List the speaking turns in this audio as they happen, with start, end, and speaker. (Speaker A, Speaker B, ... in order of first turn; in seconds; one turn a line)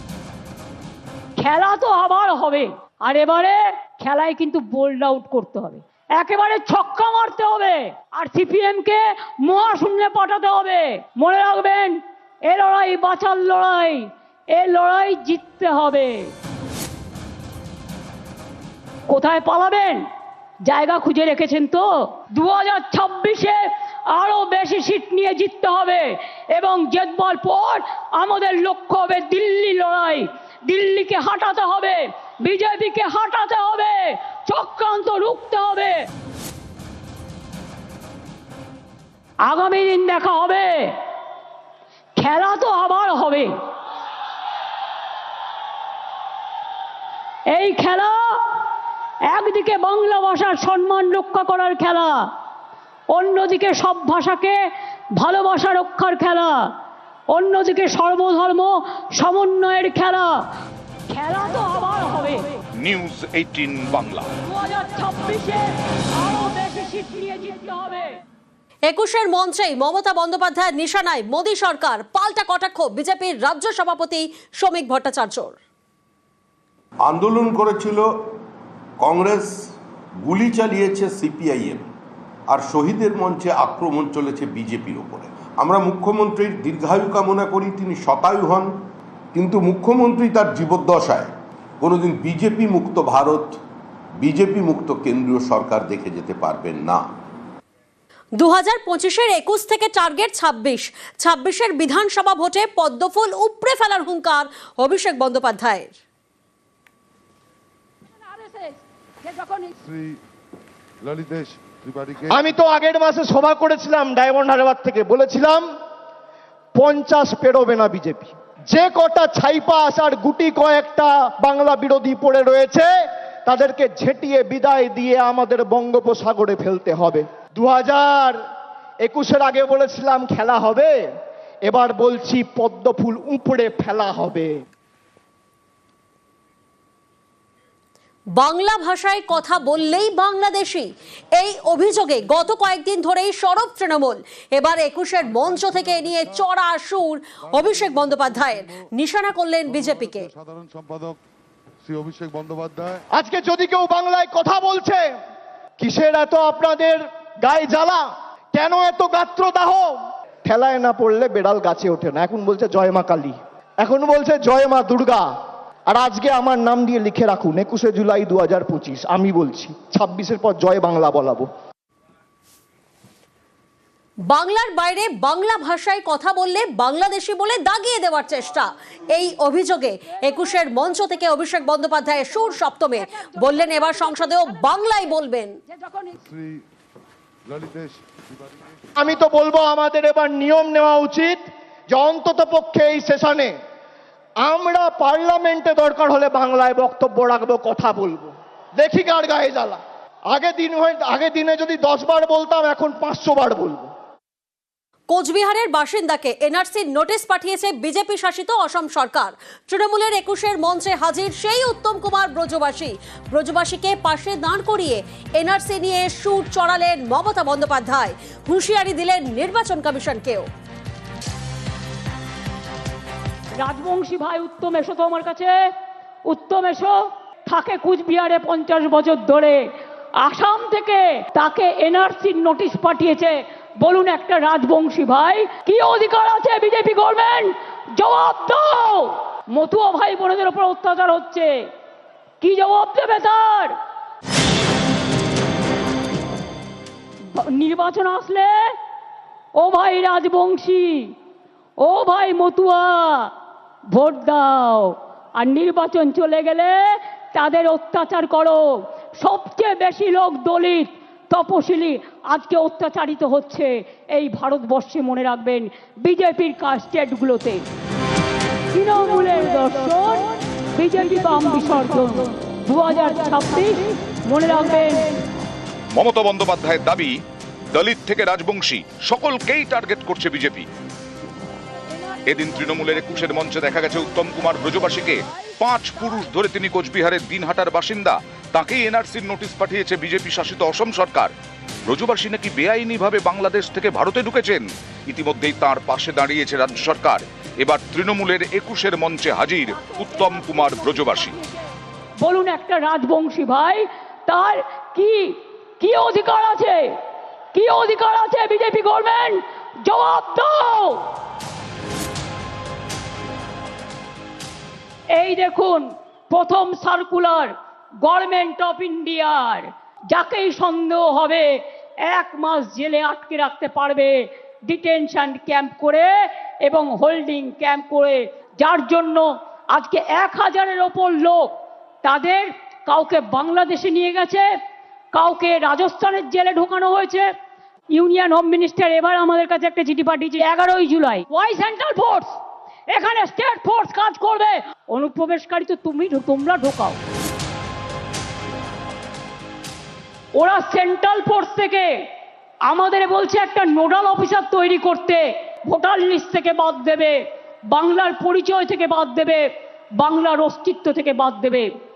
Speaker A: 1.4-16.3
Speaker A: 19.1-20.1
Speaker A: 20.7-36.1
Speaker A: 39.5-41.0
Speaker A: 42.2-43.5
Speaker A: 47.5-48.7
Speaker A: 49.3-52.2
Speaker A: 53.1-54.6
Speaker A: 55.2-56.6
Speaker A: 57.3-60.3
Speaker A: 61.1-62.5
Speaker B: 62.8-64.3
Speaker A: 64.5-68.2
Speaker C: 68.9-75.6
Speaker D: 77.0-78.1
Speaker D: 79.0-79.5
Speaker D: 80.2-81.9
Speaker D: 82.5-88.7
Speaker D: 89.3-93.6
Speaker D: 94.2-97.1
Speaker C: 98.4-106.0
Speaker A: 108.2-109.7
Speaker E: 109.8-110.2
Speaker E: 111.0-112.5
Speaker F: 112.3-115.7
Speaker F: 116.8-122.9
Speaker F: 123.5-128.4
Speaker F: 129.0-131.0
Speaker F: 131.7-134.6
Speaker C: 138.4-150.3
Speaker E: 145.2-146.4
Speaker E: 147.4-148.8
Speaker E: 149.7-151.2
Speaker E: 151.8-153.1
Speaker F: 153.2-155.1
Speaker F: 155.8-165.3
Speaker F: 165.9-171.5
Speaker C: 174.3-185.6
Speaker A: 180.1-181.2
Speaker A: 182.0-185.0
Speaker A: 185.7-186.2
Speaker E: 186.3-186.7
Speaker E: 187.5-188.9
Speaker F: 189.0-193.5
Speaker F: 194.4-199.8
Speaker F: 200.3-203.9
Speaker C: 205.1-220.5
Speaker A: 223.6-225.7
Speaker A: 226.3-229.6
Speaker A: 230.2-241.5
Speaker A: 242.4-243.8
Speaker A: 247.3-248.8
Speaker A: 249.6-251.2
Speaker A: 251.8-253.3
Speaker A: 253.9-267.6
Speaker A: 268.7-275.2
Speaker B: 275.9-277.2
Speaker B: 277.7-280.7
Speaker A: 281.9-283.5
Speaker B: 282.3-291.3
Speaker A: 284.9-286.3
Speaker B: 291.9-301.4
Speaker A: 299.7-307.0
Speaker A: 307.5-311.2
Speaker A: 315.1-334.5
Speaker A: 335.1-337.3
Speaker A: 337.9-347.0
Speaker A: 350.4-352.1
Speaker A: 352.7-361.7